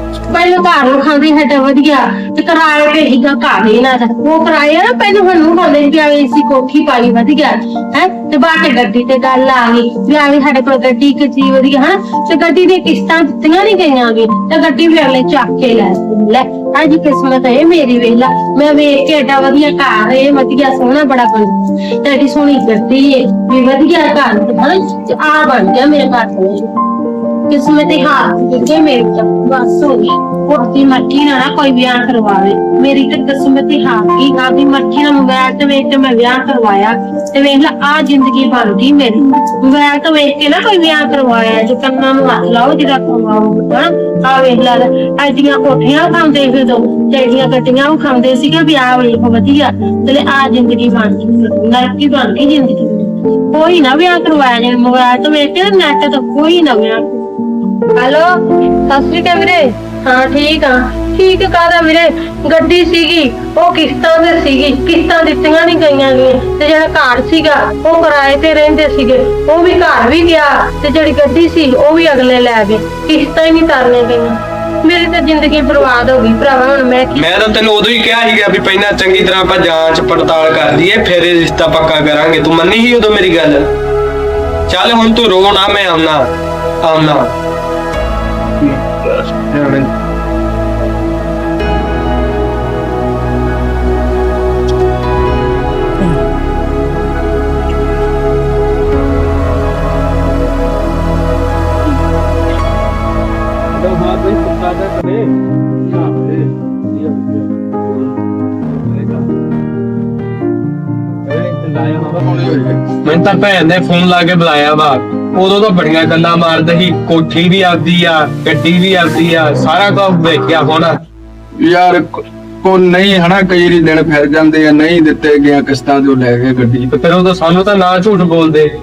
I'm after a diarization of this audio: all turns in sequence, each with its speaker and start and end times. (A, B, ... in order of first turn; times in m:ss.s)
0:00.3-0:26.7 A
0:27.5-0:57.3 A
0:57.9-0:58.3 A
0:58.9-1:17.2 A
1:17.1-1:23.7 B
1:24.7-1:26.3 B
1:26.8-1:27.3 B
1:28.6-1:29.9 B
1:43.7-1:45.3 B
1:45.8-1:48.1 B
1:48.8-1:49.3 B
1:51.3-1:52.4 B
1:52.2-1:52.8 C
1:53.0-2:01.0 B
2:01.6-2:06.9 C
2:06.9-2:08.7 B